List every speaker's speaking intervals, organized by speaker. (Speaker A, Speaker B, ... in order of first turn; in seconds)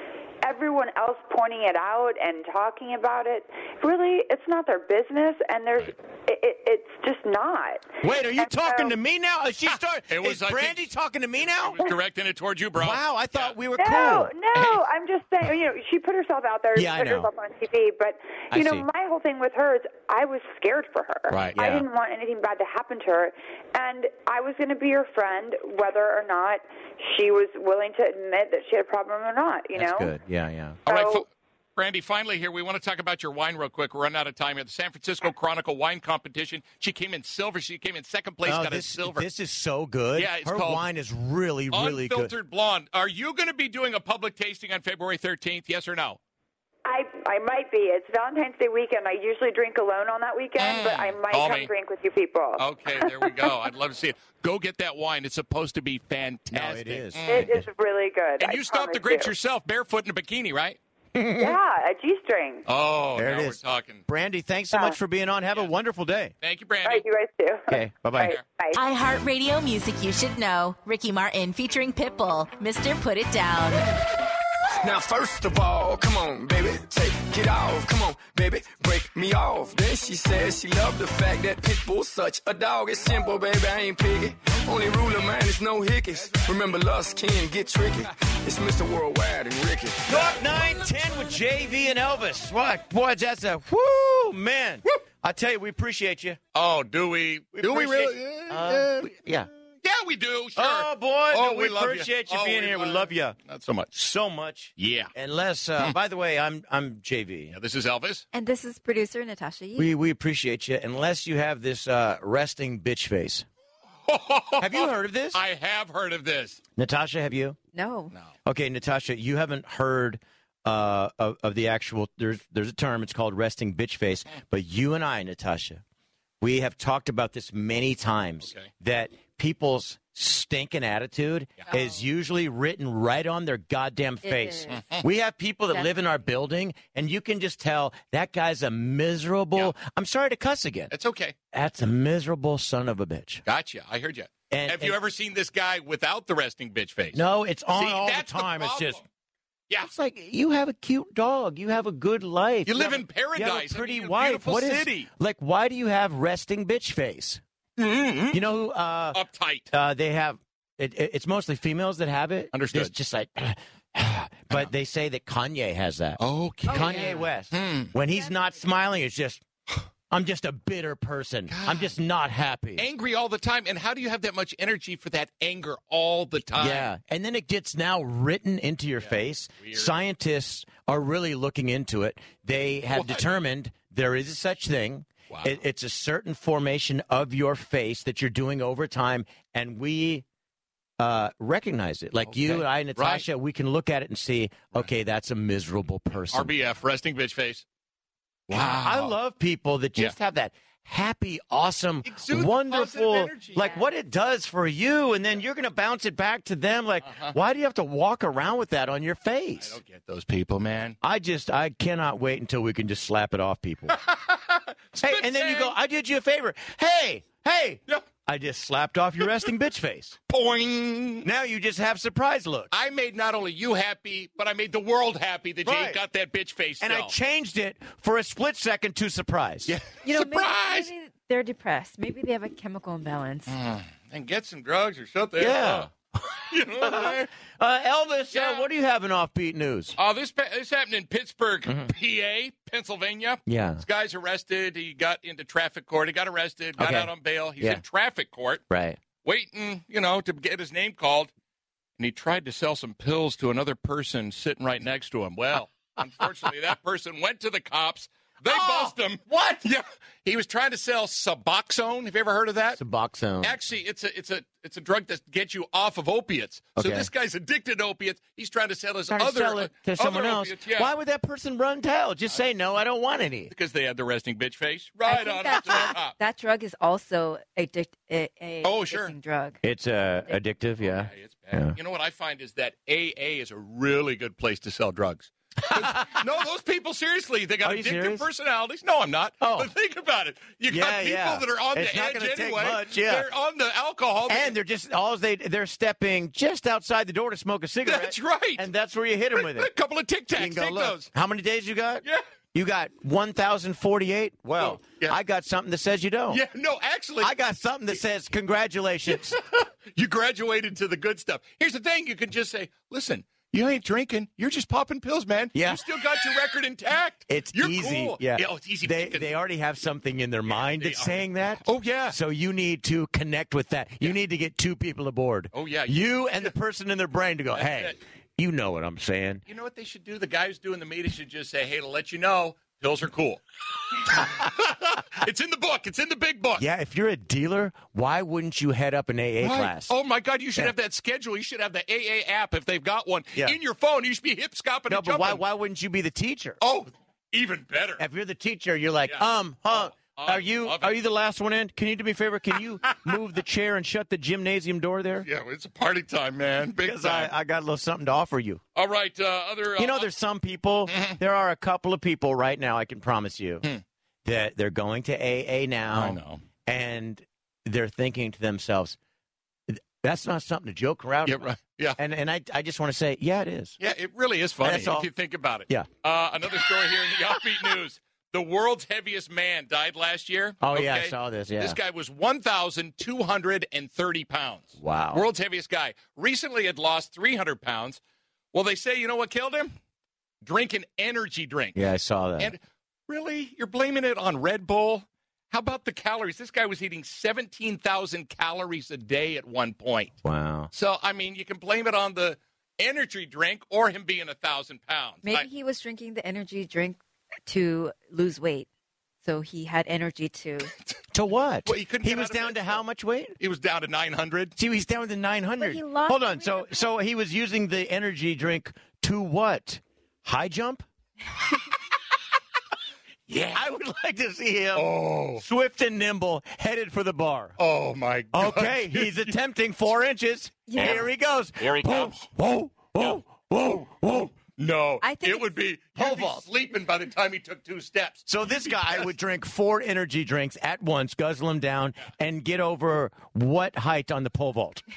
Speaker A: 0.4-8.9, 13.8-30.1, 30.9-31.2, 46.8-53.5, 57.3-59.3, 61.4-62.6, 66.8-68.8
Speaker B: 8.0-11.8, 12.8-14.3, 16.7-17.3, 18.5-18.9, 21.5-21.9, 29.7-30.8, 38.4-42.3, 56.5-57.5, 61.1-61.6, 63.1-66.3, 67.7-68.4, 90.1-96.4, 97.5-99.5, 100.5-103.3, 103.9-107.5, 109.8-113.5, 114.6-115.4, 116.8-117.6, 118.5-125.8, 126.4-140.9, 141.5-143.4, 144.5-145.0, 147.1-149.0, 149.8-157.4, 158.3-169.4, 170.1-172.8, 176.6-190.2, 191.0-196.5, 198.5-209.8, 211.0-214.0, 214.9-220.2, 221.2-222.7, 225.6-226.0, 226.8-229.8, 235.4-235.9, 236.7-240.0, 241.7-241.9, 243.5-243.8, 246.8-247.8, 248.7-249.0, 258.4-259.6, 262.7-263.6, 266.8-267.1, 269.1-273.5, 279.6-281.8, 285.7-286.2, 287.6-288.3, 289.4-289.7, 290.7-293.2, 294.3-299.7, 300.4-306.4, 307.2-309.4, 315.5-316.2, 317.3-329.4, 336.6-339.9, 344.9-346.6, 348.0-355.3, 356.8-358.6, 359.8-363.7, 364.2-369.0, 369.7-373.8, 374.6-375.1, 380.6-381.8, 384.8-385.2, 391.7-392.5, 400.2-400.7, 411.1-413.4, 414.6-420.8, 423.5-427.6, 428.3-434.3, 436.0-436.4, 438.3-444.8
Speaker C: 10.1-10.9, 11.4-13.6, 14.5-14.8, 21.3-21.6, 30.9-39.2, 40.1-40.8, 41.7-46.2, 50.6-51.7, 52.6-57.6, 58.4-60.8, 62.6-64.0, 66.4-67.0, 96.5-99.1, 99.8-103.9, 104.8-105.1, 107.5-108.2, 114.0-116.6, 134.7-135.0, 140.9-141.3, 143.4-149.0, 152.7-155.1, 157.8-158.4, 159.1-159.7, 162.5-162.9, 166.2-167.9, 171.5-171.9, 172.8-176.9, 179.0-179.9, 182.9-183.2, 185.3-185.6, 192.2-193.2, 196.3-197.6, 198.5-199.1, 202.0-203.8, 207.1-207.3, 209.6-211.0, 213.9-215.8, 220.3-221.3, 222.7-227.1, 229.7-230.9, 233.5-237.3, 238.3-238.7, 240.0-248.6, 249.2-251.3, 252.0-262.8, 263.4-270.9, 273.5-276.1, 278.6-279.1, 280.8-294.5, 297.8-298.6, 299.3-301.1, 304.6-305.2, 306.3-307.3, 309.1-319.3, 320.5-322.2, 325.5-326.5, 327.5-327.9, 329.5-333.4, 333.9-336.6, 339.4-345.4, 346.6-348.0, 349.1-351.0, 355.2-357.3, 358.7-360.1, 360.9-361.2, 365.9-366.4, 371.2-372.0, 373.8-388.0, 388.5-389.7, 390.4-391.9, 392.4-400.2, 400.7-405.5, 411.6-412.8, 413.4-414.5, 423.3-423.6, 424.7-425.4, 427.6-429.3, 430.8-431.1, 431.6-432.2, 434.6-439.1
Speaker D: 68.7-73.9
Speaker E: 74.8-90.3
Speaker F: 108.3-109.9, 117.7-118.1, 134.2-134.8, 166.7-167.2, 230.0-233.5, 275.1-279.6, 405.2-408.7, 409.2-410.7, 415.6-416.8, 430.7-430.9, 435.0-435.5